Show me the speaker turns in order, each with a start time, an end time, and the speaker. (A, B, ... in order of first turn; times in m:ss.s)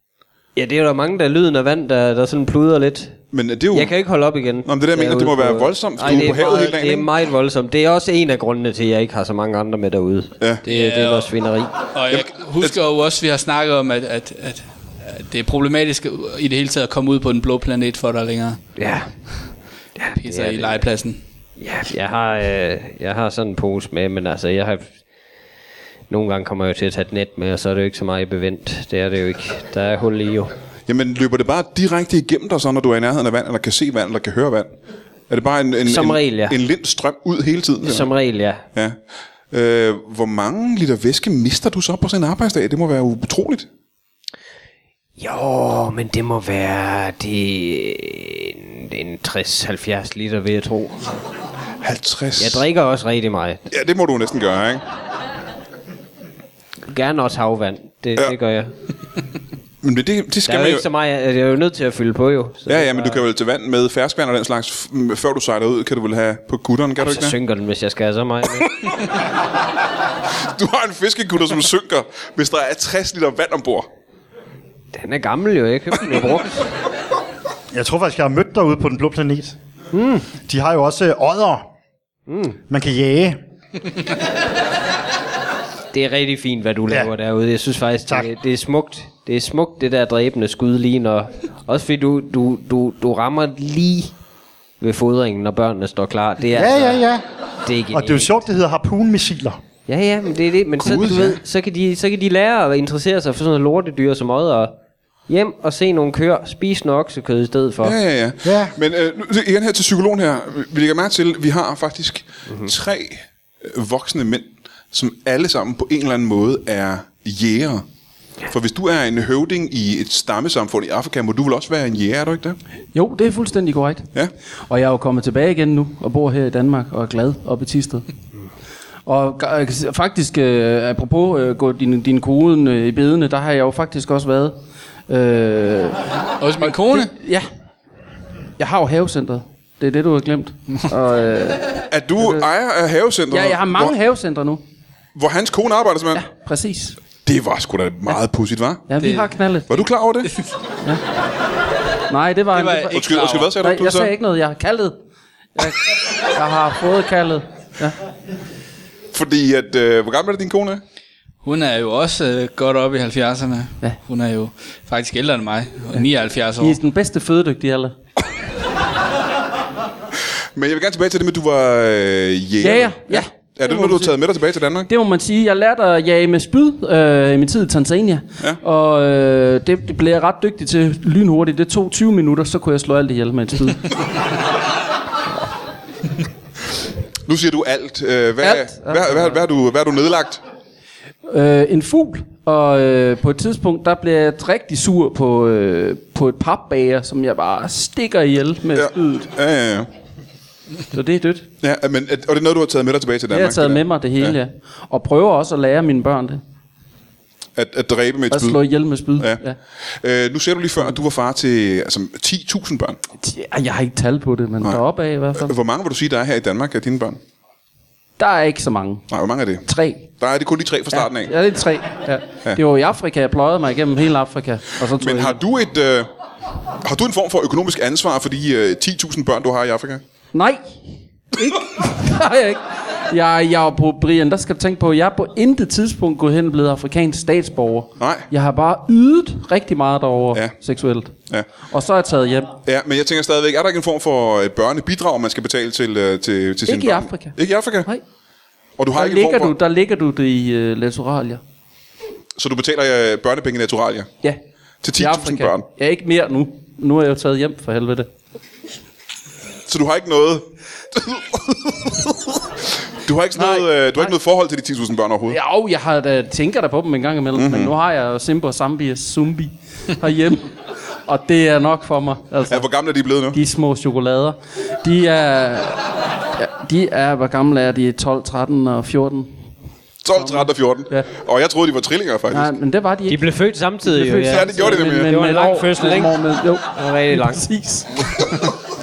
0:00.6-0:03.2 A
0:03.3-0:03.9 B
0:03.7-0:11.9 A
0:04.6-0:07.1 B
0:10.6-0:11.3 C
0:11.9-0:18.6 C
0:12.1-0:12.8 B
0:18.8-0:19.1 A
0:20.0-0:20.8 A
0:20.1-0:21.2 C
0:21.6-0:24.9 A
0:26.1-0:30.5 A
0:30.9-0:34.7 B
0:35.3-0:38.1 B
0:35.8-0:36.6 A
0:37.8-0:38.6 A
0:39.5-0:43.7 B
0:45.2-0:51.2 A
0:51.8-0:52.6 B
0:52.4-0:53.6 A
0:53.7-0:54.8 B
0:56.9-0:58.7 A
0:59.8-1:00.8 B
1:00.5-1:03.2 A
1:02.7-1:07.4 B
1:07.0-1:08.7 A
1:10.4-1:13.9 B
1:14.9-1:16.7 A
1:17.7-1:19.6 D
1:19.9-1:20.3 A
1:20.4-1:21.7 D
1:22.3-1:22.6 A
1:22.7-1:23.4 D
1:25.9-1:34.1 A
1:34.8-1:37.0 A
1:36.5-1:37.2 D
1:37.6-1:38.4 A
1:37.9-1:39.6 D
1:39.9-1:44.7 A
1:40.8-1:41.4 B
1:45.3-1:48.0 A
1:47.8-1:57.8 B
1:48.4-1:48.7 D
1:52.5-1:52.7 A
1:58.5-2:02.6 B
2:02.9-2:04.1 E
2:04.7-2:08.0 E
2:09.0-2:14.6 E
2:15.1-2:16.1 E
2:16.4-2:17.1 C
2:16.6-2:17.4 E
2:18.6-2:22.5 E
2:21.9-2:23.9 B
2:23.3-2:24.6 E
2:25.1-2:26.2 B
2:26.1-2:27.0 E
2:27.2-2:28.8 B
2:28.9-2:29.8 E
2:29.0-2:29.3 C
2:29.7-2:30.4 B
2:32.1-2:35.0 E
2:32.5-2:33.5 C
2:32.9-2:34.1 B
2:35.6-2:38.0 E
2:39.1-2:40.8 B
2:41.4-2:46.8 C
2:46.6-2:47.9 E
2:50.5-2:54.9 B
2:52.6-2:54.1 E
2:54.9-3:03.9 E
3:07.3-3:10.4 B
3:08.4-3:09.4 E
3:11.3-3:19.3 E
3:18.7-3:19.9 B
3:20.9-3:21.5 E
3:21.6-3:24.4 B
3:23.3-3:26.4 E
3:27.6-3:28.6 B
3:28.3-3:29.6 E
3:30.0-3:33.0 B
3:33.2-3:35.5 E
3:35.4-3:37.2 B
3:38.2-3:39.0 E
3:39.1-3:39.6 B
3:39.6-3:40.1 E
3:40.2-3:41.3 B
3:40.9-3:45.4 E
3:45.0-3:46.1 B
3:46.8-3:50.0 B
3:50.3-3:50.8 E
3:51.3-4:02.5 E
3:58.0-3:58.2 B
4:02.6-4:07.9 B
4:06.6-4:08.0 E
4:08.8-4:09.5 B
4:08.9-4:11.4 E
4:12.4-4:14.1 B
4:14.8-4:15.6 B
4:15.0-4:18.1 E
4:19.7-4:25.4 B
4:23.4-4:24.1 E
4:25.3-4:30.5 E
4:27.3-4:27.7 B
4:31.0-4:32.7 E
4:32.5-4:33.4 B
4:33.3-4:39.3 E
4:40.0-4:42.5 B
4:40.1-4:41.1 E
4:42.3-4:43.2 E
4:43.0-4:46.2 A
4:43.8-4:48.5 E
4:44.3-4:45.1 B
4:46.7-4:47.4 A